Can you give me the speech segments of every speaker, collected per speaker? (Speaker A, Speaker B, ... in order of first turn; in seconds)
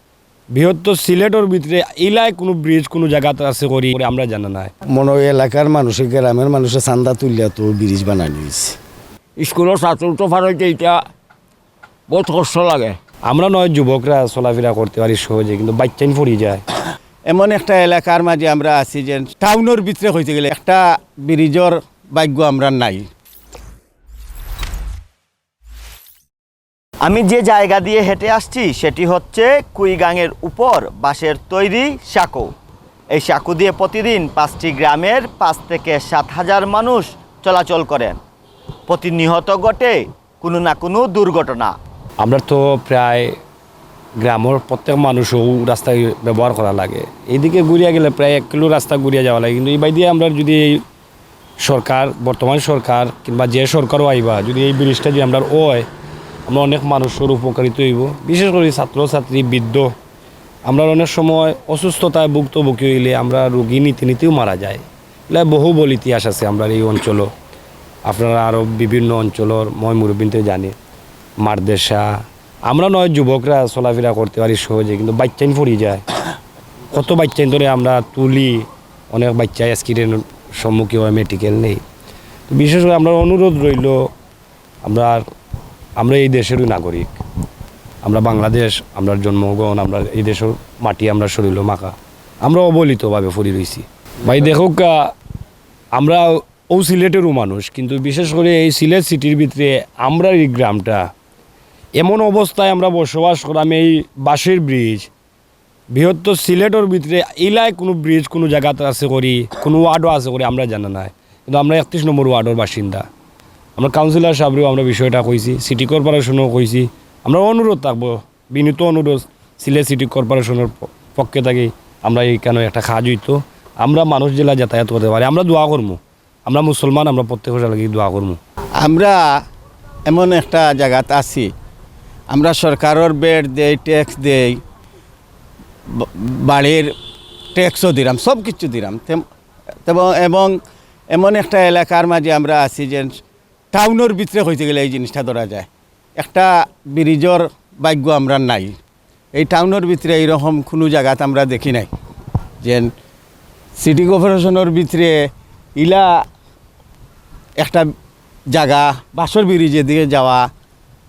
Speaker A: 0.5-4.7, 13.3-16.6, 42.2-43.3, 44.2-50.8, 51.6-55.9, 56.5-59.9, 60.7-67.3, 68.0-70.7, 71.4-76.0, 76.9-81.8, 82.5-84.1, 84.8-85.2, 86.0-87.2, 88.0-95.1, 95.9-101.1, 102.0-105.1, 105.9-113.0, 113.8-128.4
Speaker B: 4.9-8.8
Speaker C: 9.4-11.0, 12.1-12.9
Speaker D: 17.3-23.1, 128.8-129.2, 130.1-131.5, 132.3-134.6, 135.9-136.9, 137.5-139.2, 139.8-140.6, 141.1-143.2, 143.7-148.8, 149.3-151.9, 152.6-152.9, 153.8-155.2, 155.8-156.2, 157.6-157.9, 158.5-160.5
Speaker E: 27.0-32.5, 33.1-38.2, 38.9-41.7